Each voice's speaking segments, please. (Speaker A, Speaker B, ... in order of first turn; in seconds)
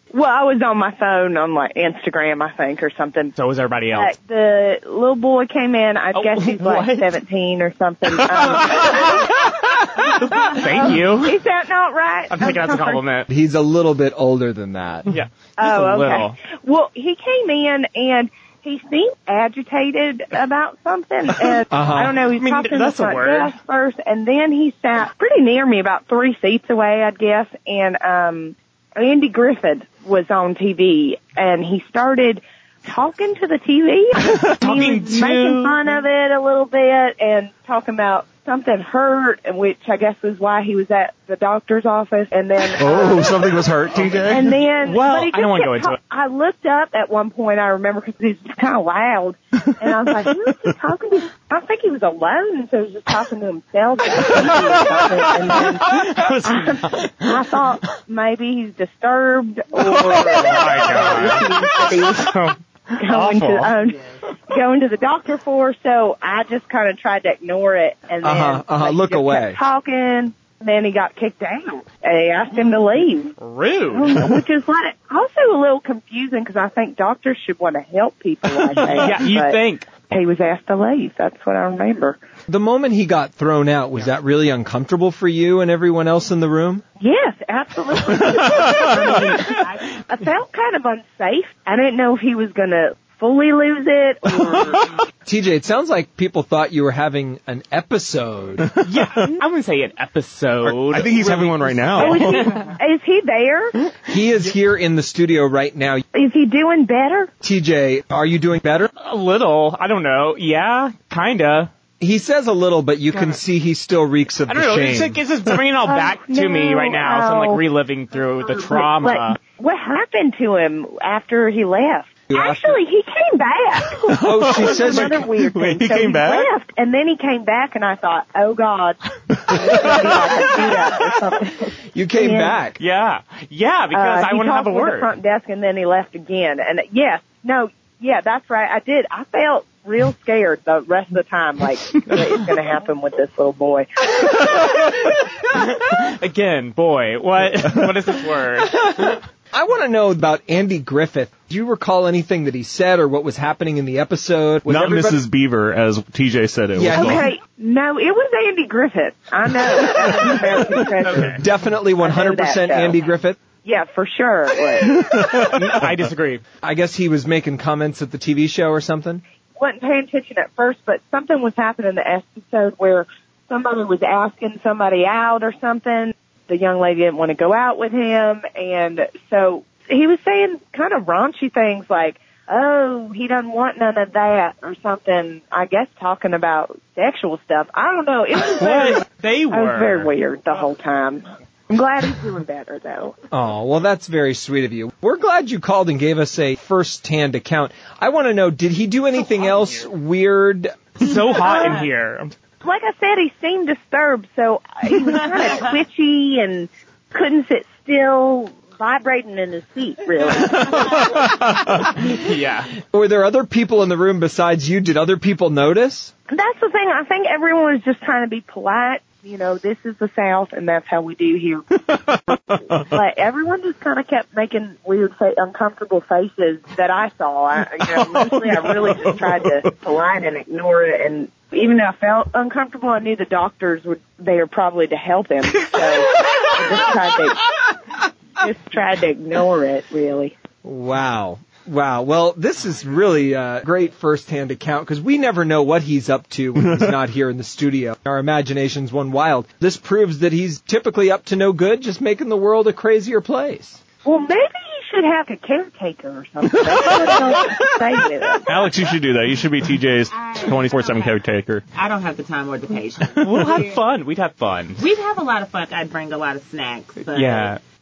Speaker A: 0.1-3.3, 3.9-13.0, 15.6-73.3, 73.9-82.2, 87.0-95.0, 101.9-103.7, 106.1-107.3, 115.8-117.6, 118.2-132.6, 133.9-144.9, 156.9-161.4, 162.0-163.0, 163.6-165.0, 169.6-193.2, 201.5-201.8, 202.6-211.3, 216.3-221.6, 222.8-237.6, 238.4-240.3, 254.0-258.7
Speaker B: 3.4-4.1, 6.1-7.1, 8.2-9.4, 10.0-11.4, 12.3-13.3, 15.1-16.4, 22.3-23.5, 34.5-35.9, 44.8-46.0, 55.5-57.4, 60.0-63.7, 73.4-74.2, 78.8-79.9, 98.8-102.7, 109.0-111.7, 114.5-119.4, 132.8-135.1, 142.1-142.4, 145.4-149.2, 161.0-161.4, 165.4-166.4, 188.5-190.1, 199.3-199.7, 201.0-202.3, 212.0-212.7, 263.2-264.9, 267.1-267.6
Speaker C: 13.3-15.1, 21.7-22.2, 68.2-69.6, 82.5-86.8, 95.2-98.7, 104.1-106.0, 107.4-108.9, 112.0-115.2, 122.3-122.8, 124.1-125.3, 131.9-132.8, 148.8-155.2, 156.8-157.3, 161.2-163.4, 166.6-169.2, 193.3-201.2, 212.9-216.1, 240.6-253.8
Speaker D: 42.8-44.6, 88.2-88.8, 98.6-98.9, 100.6-102.5, 124.0-126.5, 129.3-130.6, 154.7-157.2, 159.7-160.8, 164.8-165.8, 221.9-222.9, 227.8-229.7, 246.6-246.9, 256.6-257.3, 258.4-261.6
Speaker E: 89.0-89.9, 260.1-261.2, 261.7-263.8, 264.8-267.5